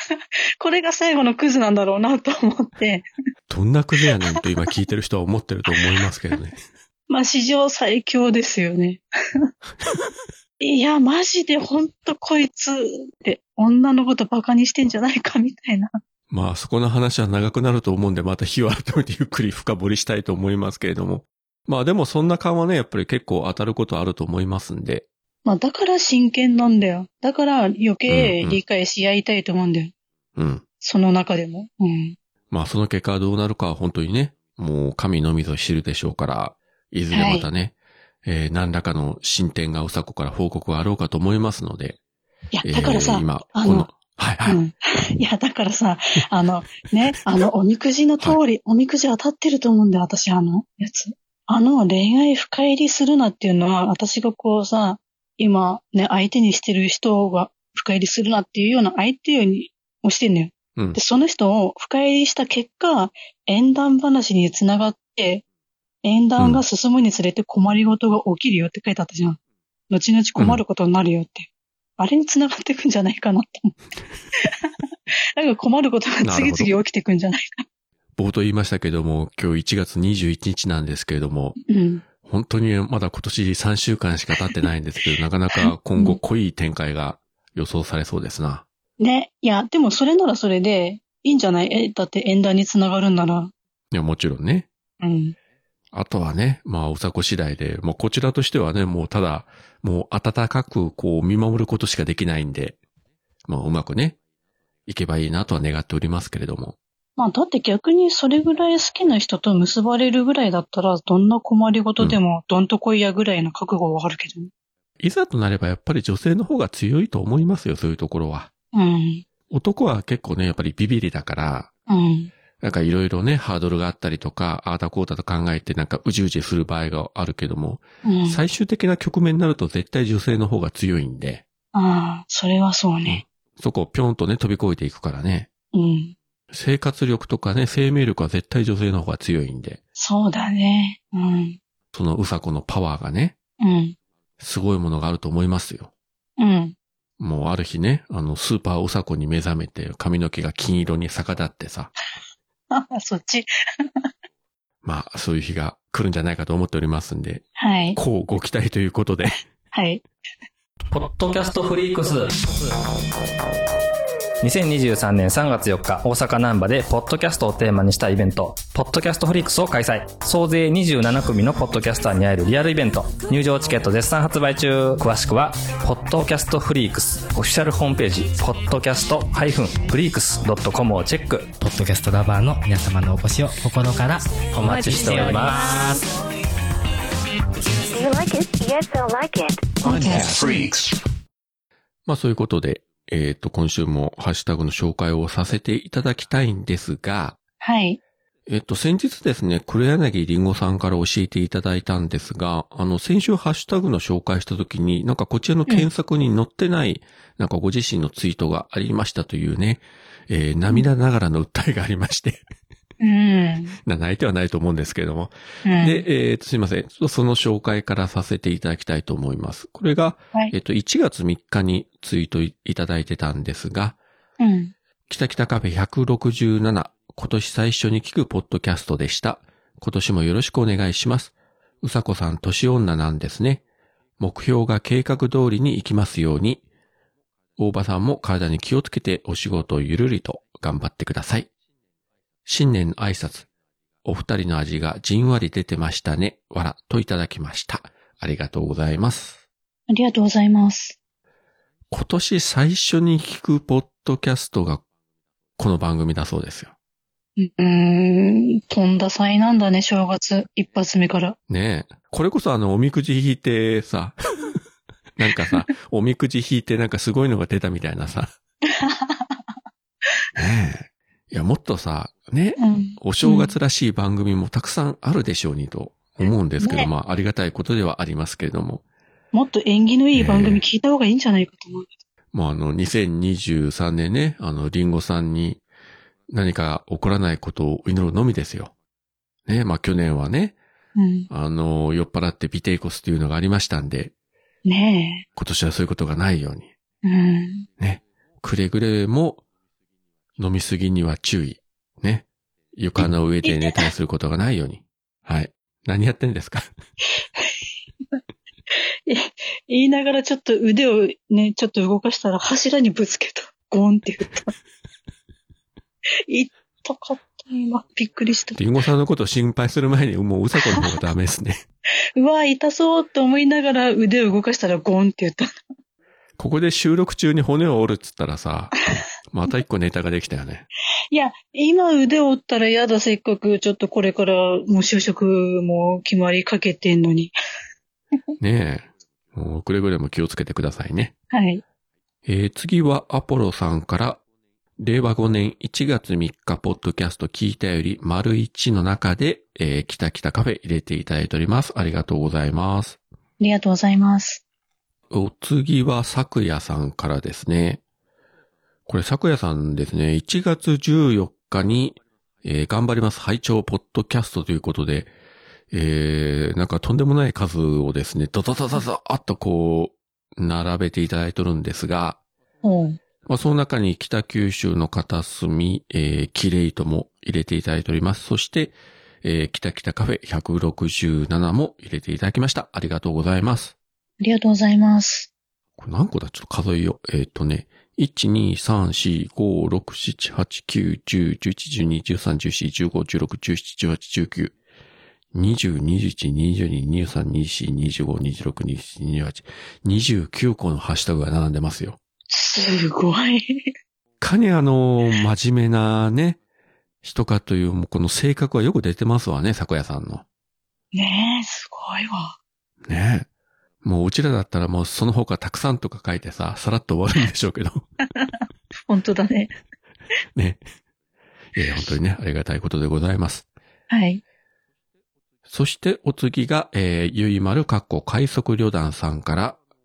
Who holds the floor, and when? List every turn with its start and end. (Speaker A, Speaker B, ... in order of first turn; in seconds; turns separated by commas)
Speaker A: 0.6-3.0, Speaker B: 3.5-6.6, Speaker A: 7.1-9.5, Speaker A: 10.6-15.9, Speaker B: 16.3-25.0, Speaker A: 25.4-29.9, Speaker B: 28.1-28.6, Speaker B: 30.4-30.6, Speaker A: 30.8-32.2, Speaker B: 32.5-42.0, Speaker A: 37.1-37.5, Speaker A: 42.5-43.9, Speaker B: 42.6-44.6, Speaker A: 44.4-65.4, Speaker A: 66.0-69.4, Speaker A: 69.9-73.8, Speaker B: 70.4-70.6, Speaker A: 74.4-74.7, Speaker A: 75.3-77.6, Speaker B: 76.2-76.7, Speaker B: 78.2-81.6, Speaker A: 81.7-82.0, Speaker B: 82.2-88.6, Speaker A: 85.5-86.2, Speaker A: 89.0-93.5, Speaker B: 93.9-94.7, Speaker A: 95.0-95.3, Speaker B: 95.9-102.8, Speaker B: 103.5-104.2, Speaker B: 104.8-106.8, Speaker A: 107.2-114.5, Speaker B: 115.0-118.5, Speaker A: 118.7-119.2, Speaker B: 119.5-121.7, Speaker A: 121.9-122.3, Speaker B: 122.6-131.4, Speaker A: 128.0-128.4, Speaker A: 131.7-133.2, Speaker B: 133.1-135.5, Speaker A: 135.7-136.1, Speaker B: 136.5-139.8, Speaker A: 139.9-141.6, Speaker B: 141.9-143.3, Speaker A: 143.6-143.9, Speaker B: 144.4-145.9, Speaker A: 146.4-146.8, Speaker B: 147.2-151.9, Speaker A: 152.7-153.5, Speaker B: 154.8-157.4, Speaker A: 157.6-158.0, Speaker B: 157.9-159.4, Speaker A: 159.7-160.0, Speaker C: 160.9-162.4, Speaker C: 164.4-181.5, Speaker D: 181.6-185.8, Speaker C: 184.5-185.9, Speaker E: 184.6-185.9, Speaker E: 187.9-190.8, Speaker A: 189.8-190.4, Speaker B: 192.1-197.4, Speaker A: 197.6-198.0, Speaker B: 198.5-212.4, Speaker A: 213.0-213.8, Speaker B: 213.8-224.0, Speaker A: 215.6-216.1, Speaker A: 224.4-224.7, Speaker B: 225.1-233.6, Speaker B: 234.2-236.6, Speaker B: 237.6-241.5, Speaker B: 242.4-243.5, Speaker B: 244.0-249.4, Speaker A: 249.9-251.0, Speaker B: 251.9-254.8, Speaker B: 255.6-256.7, Speaker A: 257.4-261.4, Speaker B: 261.5-264.6, Speaker B: 265.2-268.3, Speaker A: 268.7-269.3, Speaker B: 270.4-278.8, Speaker A: 272.6-273.5, Speaker A: 276.6-276.9, Speaker A: 279.3-281.9, Speaker B: 280.1-280.6, Speaker B: 282.3-285.6, Speaker B: 286.3-288.7, Speaker B: 289.5-290.6, Speaker A: 290.9-291.3, Speaker B: 291.3-294.1, Speaker A: 294.6-295.2, Speaker B: 295.4-296.7, Speaker A: 297.0-297.6, Speaker B: 297.8-299.4, Speaker B: 300.4-306.7, Speaker A: 303.4-303.9, Speaker A: 309.1-314.5, Speaker A: 316.3-318.6, Speaker B: 318.5-321.6, Speaker A: 322.1-325.5, Speaker B: 326.4-330.6, Speaker A: 331.1-337.3, Speaker B: 338.4-341.1, Speaker A: 341.3-341.6, Speaker B: 342.2-344.2, Speaker B: 344.8-353.0, Speaker A: 353.4-354.4, Speaker B: 355.1-357.8, Speaker B: 358.9-365.1, Speaker B: 365.7-372.2, Speaker A: 372.6-373.0, Speaker B: 373.2-383.7, Speaker A: 384.2-385.3, Speaker B: 385.8-394.5, Speaker B: 395.3-402.0, Speaker A: 402.3-403.4, Speaker B: 404.2-406.4, Speaker B: 407.0-410.2, Speaker A: 410.9-412.4, Speaker B: 412.9-413.3, Speaker B: 413.8-417.9, Speaker A: 418.9-419.5, Speaker B: 420.4-420.6, Speaker B: 421.6-423.4, Speaker A: 423.9-424.2, Speaker B: 425.5-429.6